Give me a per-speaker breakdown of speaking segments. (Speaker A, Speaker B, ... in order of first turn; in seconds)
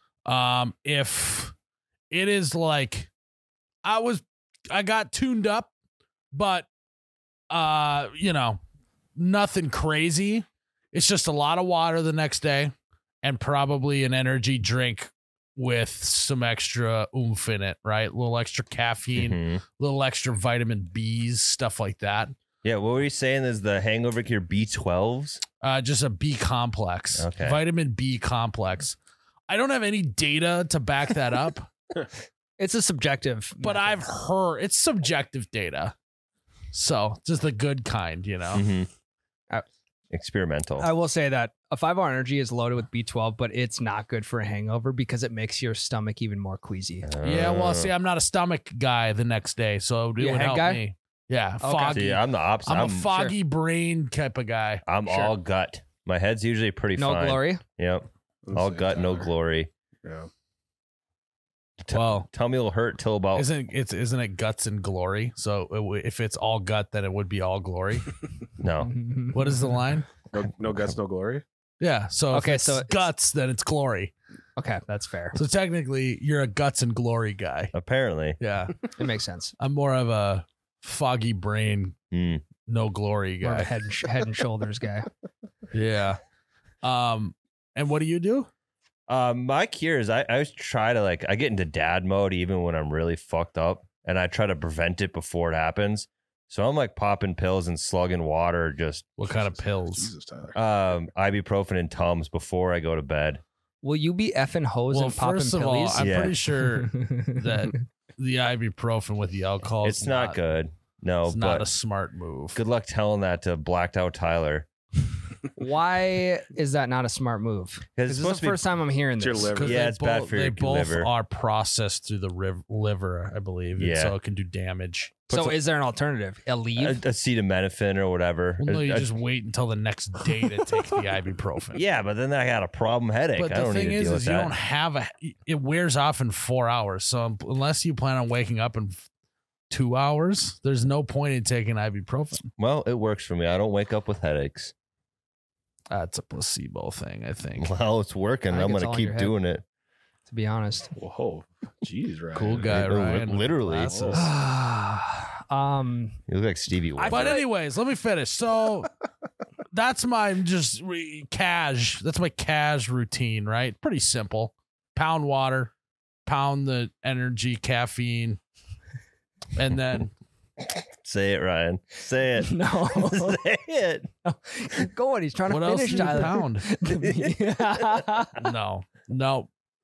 Speaker A: 0.2-1.5, 2.1-3.1, 3.8-5.7, 6.3-6.7, 7.5-8.6, 9.2-22.3, 25.6-28.9, 29.5-31.7, 33.6-35.9, 36.7-38.6, 47.2-54.8, 61.9-62.3, 63.4-68.2, 69.3-70.1, 71.8-74.1, 75.3-77.7, 78.4-78.8, 79.6-81.9, 82.6-83.7, 85.7-86.2, 86.8-88.5, 99.2-100.1, 104.9-110.4, 111.2-112.6, 119.5-125.2, 128.6-131.8, 133.3-139.1, 139.7-142.5, 145.9-147.7, 152.3-154.2, 157.1-158.9, 159.7-165.7, 166.2-168.4, 169.5-170.1, 175.5-176.7, 178.4-179.5
Speaker B: 19.1-19.6, 22.6-25.4, 27.2-27.6, 38.5-38.9, 40.1-40.9, 47.0-47.9, 51.9-53.1, 54.9-59.7, 61.8-63.5, 68.6-68.9, 77.7-78.4, 82.1-82.5, 89.1-99.1, 100.5-103.4, 106.0-106.4, 109.8-111.7, 112.5-114.7, 118.0-118.7, 119.6-121.1, 123.8-124.2, 125.3-125.6, 126.8-129.1, 131.7-134.5, 142.6-144.7, 147.6-149.6, 152.7-154.1, 156.3-157.4, 170.8-174.1, 177.0-177.4
Speaker C: 32.6-34.0, 40.8-47.1, 50.2-50.8, 51.6-52.1, 55.1-55.3, 57.0-57.6, 68.8-69.4, 72.3-73.1, 74.6-75.4, 79.0-79.5, 83.4-85.1, 103.8-106.3, 115.6-119.6, 125.3-127.0, 148.5-149.4, 150.2-150.9, 154.1-156.2, 156.9-157.4, 172.4-173.4, 174.2-178.4
Speaker D: 58.5-59.3, 60.0-60.3, 70.3-71.4, 99.3-100.6, 119.2-119.8, 150.9-152.9, 153.8-154.3